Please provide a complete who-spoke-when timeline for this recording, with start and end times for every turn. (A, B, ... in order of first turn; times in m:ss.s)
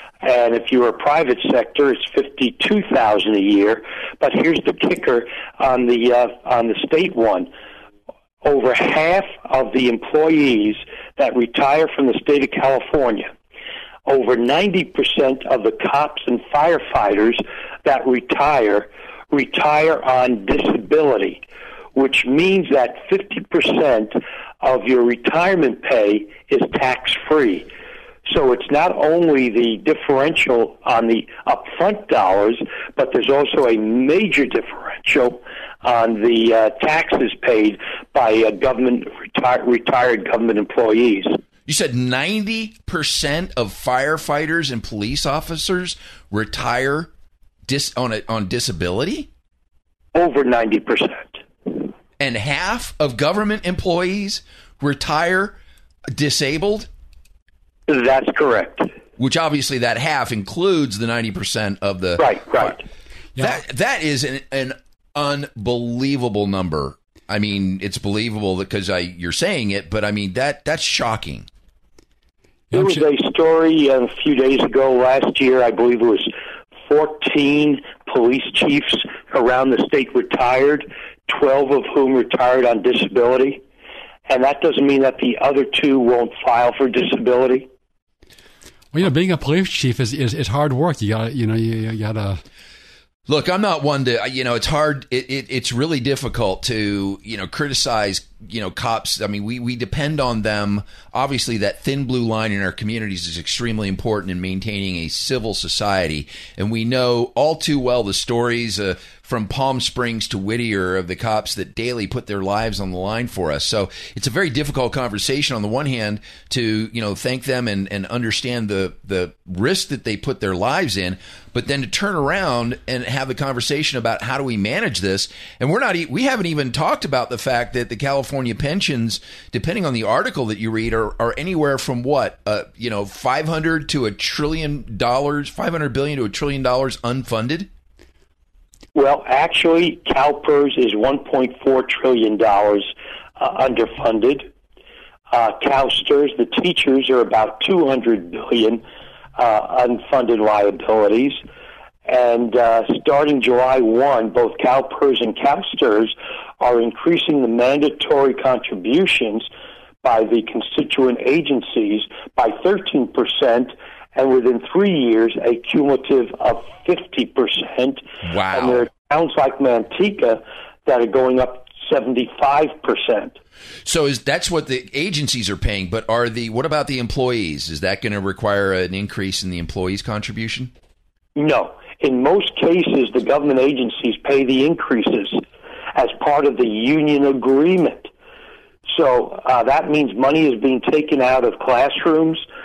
0:00.2-0:07.5 A
0:08.4-0:13.3 A
0:14.1-0:21.4 A
0:22.0-0:27.7 A
0:28.3-0:41.4 A
0:41.7-0:47.1 B
0:47.7-0:49.3 B
0:50.1-0:51.4 A
0:52.2-0:55.6 B
0:56.1-0:56.9 B
0:57.9-0:58.9 A
0:59.2-1:02.8 B
1:02.2-1:02.8 A
1:03.4-1:11.5 B
1:12.7-1:13.1 C
1:12.7-1:16.3 A
1:16.9-1:23.6 A
1:24.3-1:27.7 A
1:28.9-1:32.4 C
1:33.3-2:17.7 B
2:19.0-2:24.5 A
2:25.3-2:28.8 A
2:29.4-2:31.4 A
2:32.1-2:39.5 A
2:40.0-2:53.4 A
2:48.2-2:48.9 B
2:53.8-3:00.7 B
3:01.4-3:05.4 A
3:06.0-3:08.1 A
3:08.9-3:12.4 A